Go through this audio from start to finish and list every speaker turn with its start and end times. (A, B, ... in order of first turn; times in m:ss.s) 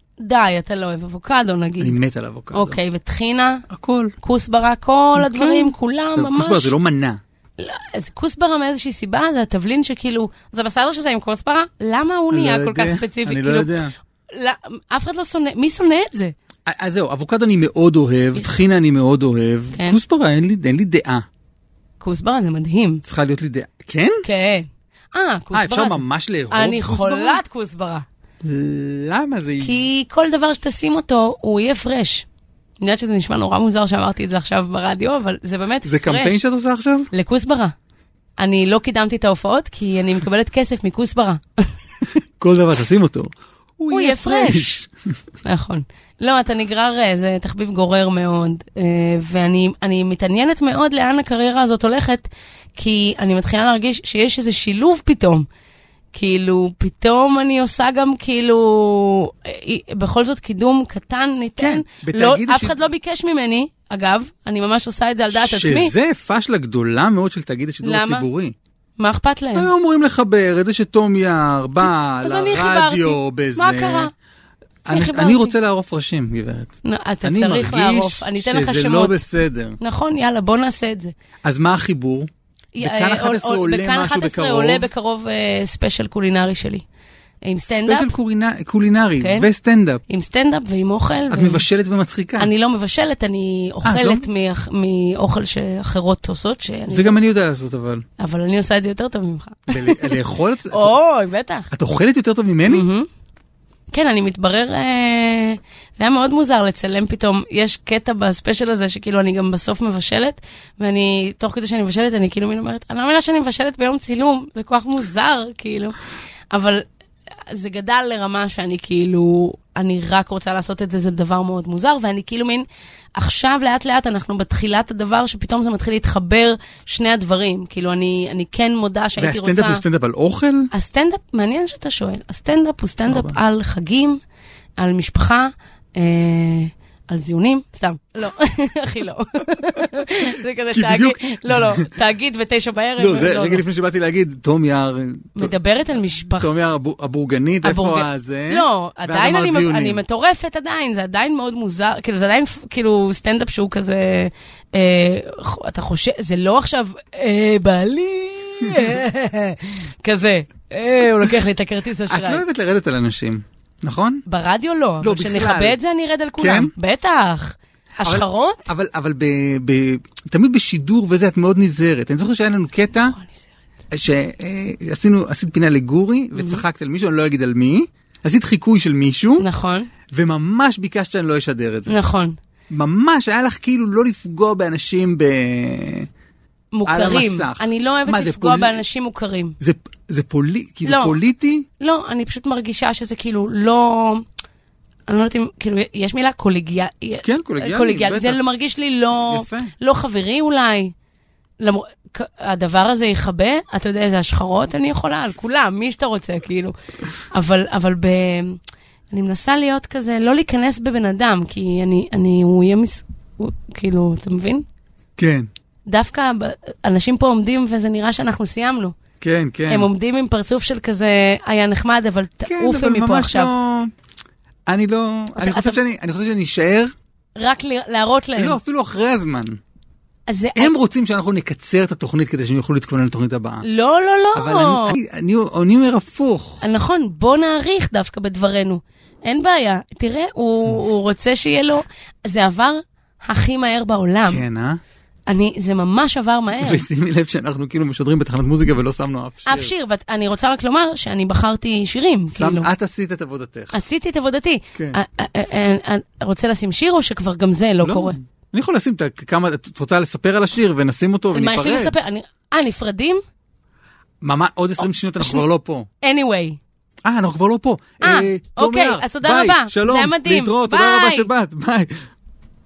0:00.2-0:02.0 A
0:01.8-0:02.8 B
0:02.5-0:03.7 A
0:03.7-0:04.2 B
0:04.2-0:06.7 A
0:05.2-0:07.2 B
0:07.6-0:13.7 A
0:12.3-0:13.9 B
0:14.3-0:16.3 A
0:16.7-0:21.3 B
0:22.0-0:23.0 A
0:23.0-0:24.2 B
0:24.2-0:28.1 A
0:25.5-0:27.4 B
0:28.4-0:29.8 B
0:29.6-0:32.3 A
0:32.8-0:36.4 A
0:35.8-0:37.1 B
0:37.1-0:37.7 A
0:38.4-0:41.7 A
0:42.4-0:44.9 B
0:43.9-0:44.8 A
0:45.4-0:55.5 A
0:56.1-1:05.9 A
1:01.6-1:02.8 B
1:05.3-1:08.5 B
1:07.8-1:08.3 A
1:09.0-1:09.7 A
1:09.6-1:14.1 B
1:11.8-1:14.1 A
1:14.9-1:19.8 B
1:14.9-1:15.5 A
1:16.8-1:19.2 A
1:19.8-1:21.1 A
1:21.4-1:22.3 B
1:22.7-1:26.8 A
1:22.8-1:24.9 B
1:27.4-1:28.1 A
1:27.7-1:30.0 B
1:29.2-1:29.5 A
1:30.1-1:31.6 A
1:31.3-1:32.5 B
1:32.4-1:37.2 A
1:33.8-1:34.3 B
1:36.9-1:38.0 B
1:38.2-1:41.7 A
1:39.7-1:41.0 B
1:41.7-1:42.9 B
1:42.7-1:43.1 A
1:43.9-1:56.0 A
1:56.5-1:56.9 A
1:57.5-2:02.6 A
2:03.2-2:09.8 A
2:09.2-2:10.7 B
2:10.7-2:14.2 A
2:13.1-2:13.4 B
2:14.8-2:23.6 A
2:20.7-2:21.9 B
2:23.0-2:25.5 B
2:25.4-2:26.5 A
2:26.4-2:30.0 B
2:27.6-2:42.4 A
2:38.6-2:39.0 B
2:42.1-2:44.2 B
2:44.3-2:48.7 A
2:45.0-2:45.8 B
2:46.4-2:46.7 B
2:48.0-2:53.2 B
2:53.1-2:53.5 A
2:53.9-2:59.5 B
2:56.4-2:56.6 A
2:59.4-2:59.9 A
3:00.1-3:02.0 B
3:01.9-3:02.4 A
3:02.7-3:06.1 B
3:06.7-3:09.6 A
3:06.9-3:08.8 B
3:09.6-3:11.7 B
3:10.8-3:11.2 A
3:11.8-3:14.2 A
3:15.1-3:20.9 A
3:17.2-3:18.4 B
3:19.1-3:19.7 B
3:21.6-3:26.7 A
3:27.3-3:28.6 A
3:29.1-3:34.6 A
3:35.2-3:35.5 B
3:35.9-3:39.0 A
3:39.2-3:39.9 B
3:39.7-3:43.5 A
3:42.4-3:43.9 B
3:44.7-3:46.9 B
3:45.4-3:45.8 A
3:47.4-3:48.6 A
3:48.4-3:49.6 B
3:50.3-3:50.7 A
3:50.6-3:53.6 B
3:53.6-3:55.0 A
3:54.4-3:56.6 B
3:56.6-4:04.4 A
4:04.3-4:04.8 B
4:05.3-4:06.8 A
4:06.5-4:09.7 B
4:09.5-4:12.7 A
4:12.3-4:13.7 B
4:13.7-4:18.2 A
4:17.8-4:21.9 B
4:21.3-4:23.2 A
4:24.2-4:25.9 B
4:26.0-4:26.6 A
4:27.0-4:32.0 B
4:28.0-4:31.3 A